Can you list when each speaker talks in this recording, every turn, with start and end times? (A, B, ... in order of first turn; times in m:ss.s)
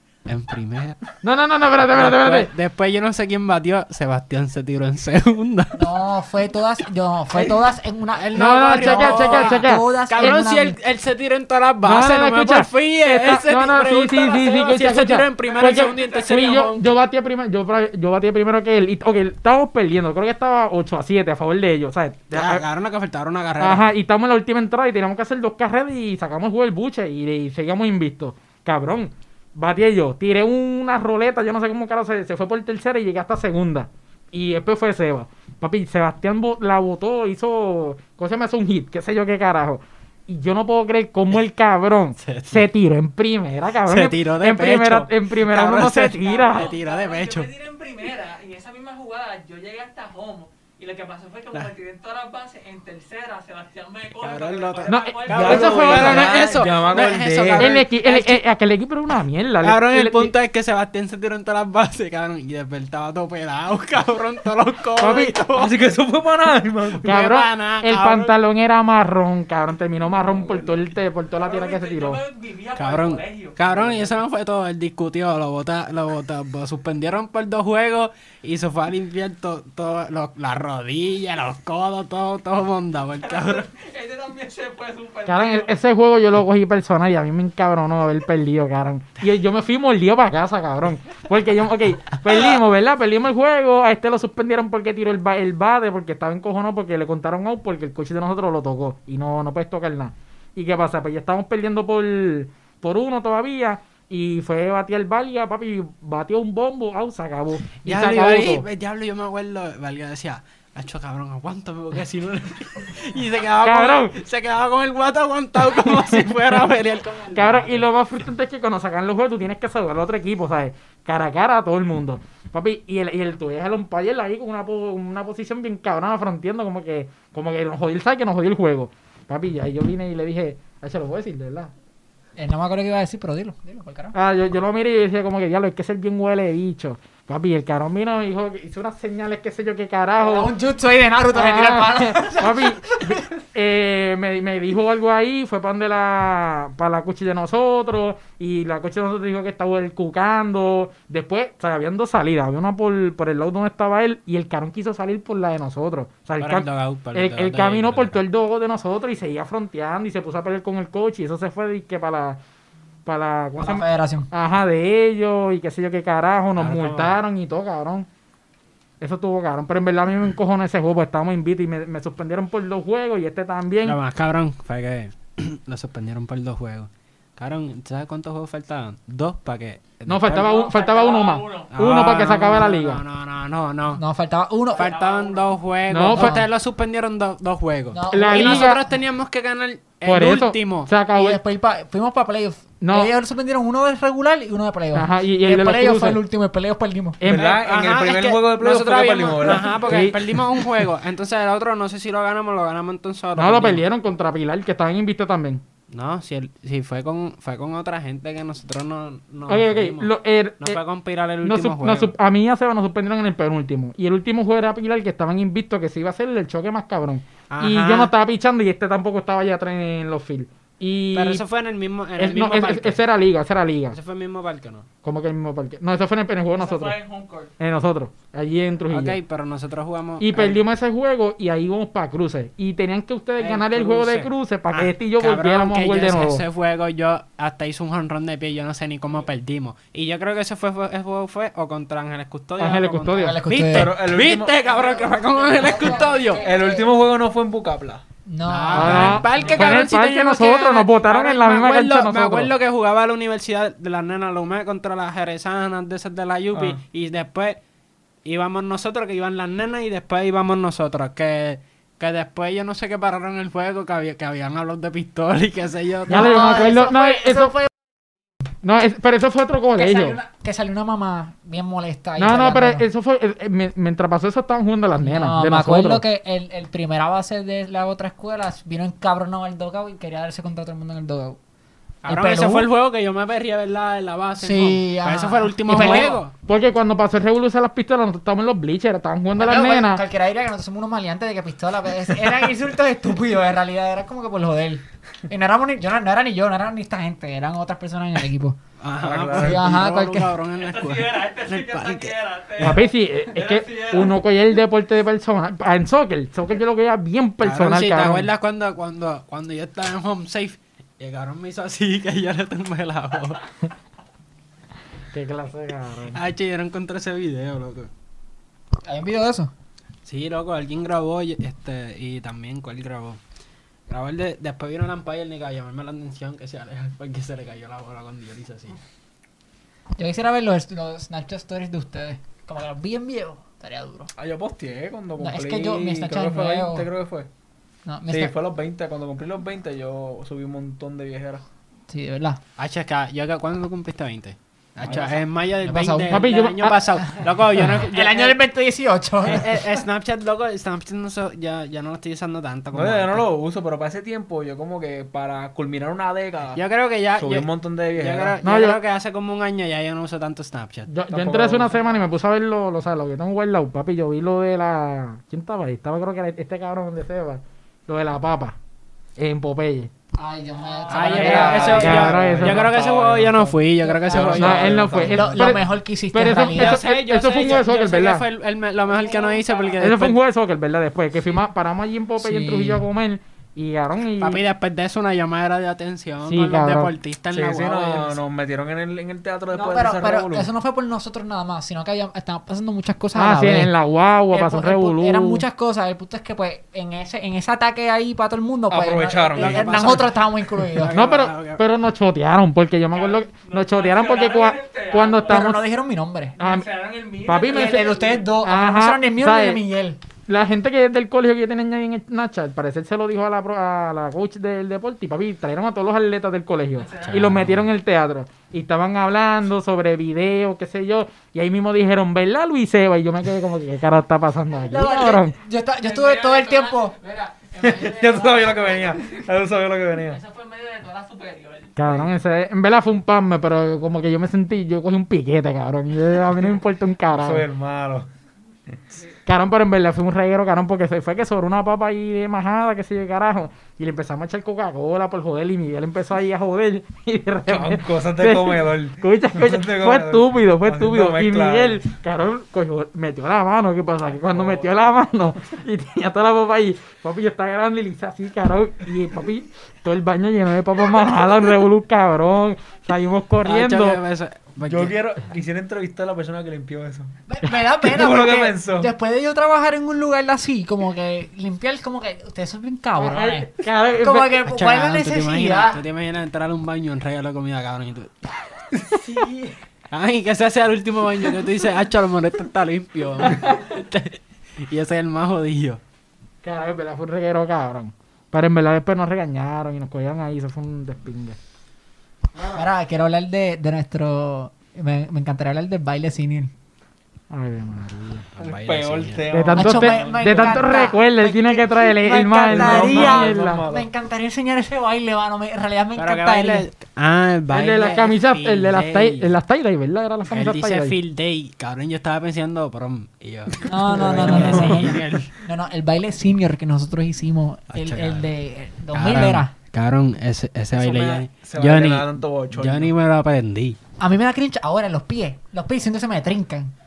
0:00.3-0:01.0 A
0:01.2-0:02.5 B
0:01.9-0:05.9 A
0:05.8-0:10.8 C
0:07.4-0:07.6 A
0:08.2-0:16.9 A
0:08.4-0:10.4 B
0:11.8-0:22.6 B
0:22.3-0:23.9 A
0:23.6-0:46.7 B
0:42.2-0:42.7 A
0:43.9-0:47.5 A
0:46.2-0:56.2 D
0:54.2-0:58.4 A
0:54.9-0:56.6 B
0:55.3-0:57.8 E
0:57.5-1:00.4 B
0:59.6-1:05.8 A
1:05.0-1:05.4 B
1:05.6-1:07.0 E
1:07.0-1:08.3 A
1:07.0-1:12.2 B
1:11.4-1:14.1 D
1:12.8-1:23.7 A
1:23.2-1:25.7 D
1:25.3-1:48.7 B
1:47.8-1:57.8 A
1:53.6-1:54.2 B
1:55.6-1:56.6 B
1:57.4-2:11.7 B
2:12.4-2:14.2 C
2:14.1-2:20.5 B
2:20.2-2:23.3 C
2:21.3-2:42.4 B
2:36.4-2:38.2 A
2:43.1-2:48.1 B
2:43.6-2:44.3 C
2:46.6-2:47.2 A
2:49.0-2:54.0 B
2:53.8-3:00.7 A
3:00.1-3:03.0 B
3:00.4-3:01.8 D
3:01.7-3:04.0 A
3:04.0-3:04.9 C
3:04.8-3:10.9 A
3:04.8-3:05.6 D
3:05.9-3:06.4 B
3:06.1-3:06.4 C
3:07.9-3:08.8 C
3:08.1-3:08.8 B
3:10.0-3:11.4 B
3:11.1-3:17.2 C
3:12.8-3:13.1 B
3:14.9-3:16.2 B
3:17.2-3:17.6 B
3:17.2-3:20.0 E
3:17.3-3:23.8 A
3:19.7-3:20.7 B
3:23.4-3:25.6 B
3:25.9-3:32.1 A
3:29.5-3:30.8 B
3:31.4-3:41.4 B
3:37.5-3:38.1 A
3:41.1-3:43.0 A
3:42.2-3:44.0 B
3:43.9-3:44.9 A
3:45.0-3:47.0 B
3:46.6-3:47.5 D
3:47.6-3:49.2 B
3:48.9-3:50.6 A
3:50.2-3:56.4 B
3:53.4-4:06.5 A
4:02.6-4:03.4 B
4:03.2-4:04.0 C
4:03.7-4:04.8 E
4:05.4-4:06.9 C
4:05.8-4:08.0 E
4:08.3-4:09.6 C
4:08.5-4:17.6 A
4:08.7-4:12.5 B
4:16.5-4:16.8 E
4:18.2-4:26.6 A
4:26.1-4:27.6 B
4:26.1-4:27.7 C
4:28.6-4:30.2 B
4:29.8-4:32.8 C
4:32.2-4:36.0 B
4:35.0-4:41.4 C
4:42.0-4:46.3 A
4:42.0-4:42.7 C
4:44.4-4:46.2 C
4:45.7-4:50.0 B
4:49.4-4:58.6 C
4:58.8-5:02.7 A
4:59.0-4:59.8 E
4:59.4-5:00.3 C
5:00.6-5:04.2 D
5:02.6-5:08.3 B
5:07.4-5:13.4 A
5:15.1-5:16.2 B
5:16.1-5:17.9 A
5:18.8-5:19.5 C
5:20.1-5:23.2 A
5:23.9-5:28.8 A
5:30.0-5:34.1 C
5:34.2-5:37.3 E
5:35.2-5:36.9 C
5:37.9-5:38.3 C
5:38.1-5:41.4 E
5:41.9-5:42.4 C
5:42.6-5:48.4 A
5:44.8-5:45.1 C
5:44.9-5:45.2 E
5:45.6-5:46.3 C
5:46.1-5:47.0 B
5:47.0-5:49.6 C
5:49.2-5:53.3 A
5:52.7-5:56.6 E
5:56.6-6:00.9 A
5:57.2-5:58.4 E
5:58.4-5:58.8 B
6:00.9-6:08.6 B
6:01.1-6:01.8 E
6:09.2-6:09.9 B
6:10.2-6:12.2 C
6:10.8-6:11.3 D
6:10.9-6:15.6 A
6:11.1-6:12.8 B
6:11.6-6:13.6 E
6:13.8-6:14.5 C
6:14.1-6:15.2 E
6:14.2-6:18.2 B
6:15.0-6:16.8 C
6:16.6-6:20.2 A
6:18.9-6:19.8 D
6:19.8-6:24.4 B
6:22.2-6:22.8 C
6:24.2-6:28.2 A
6:26.2-6:26.9 B
6:27.3-6:30.5 E
6:29.5-6:33.7 C
6:33.1-6:35.4 B
6:34.3-6:40.9 C
6:38.7-6:40.1 E
6:39.4-6:41.6 A
6:40.9-6:45.6 B
6:42.9-6:45.5 D
6:45.3-6:46.4 C
6:46.4-6:48.3 D
6:46.4-6:46.7 B
6:47.2-6:49.6 B
6:47.5-6:50.0 C
6:50.3-7:05.4 B
6:56.8-6:57.2 D
6:57.0-6:57.6 A
7:04.6-7:07.0 C
7:05.8-7:09.3 D
7:07.6-7:10.2 E
7:10.0-7:12.1 D
7:11.8-7:17.5 B
7:17.1-7:18.1 E
7:19.3-7:44.0 B
7:27.5-7:31.8 E
7:34.3-7:34.7 E
7:43.4-7:45.0 A
7:44.6-7:47.2 E
7:47.3-7:55.8 C
7:47.7-7:48.9 E
7:53.0-7:54.4 B
7:54.5-7:58.3 A
7:59.0-7:59.6 B
7:59.9-8:05.8 A
8:06.4-8:11.4 B
8:12.6-8:16.5 C
8:17.3-8:18.2 B
8:18.3-8:19.3 A
8:18.4-8:20.6 E
8:19.3-8:23.6 B
8:19.5-8:26.7 C
8:22.5-8:23.9 E
8:26.0-8:29.3 A
8:27.5-8:31.0 B
8:30.3-8:35.3 A
8:33.6-8:39.5 C
8:34.5-8:34.8 E
8:37.7-8:38.3 A
8:38.9-8:43.8 A
8:40.8-8:42.9 E
8:44.0-8:46.7 C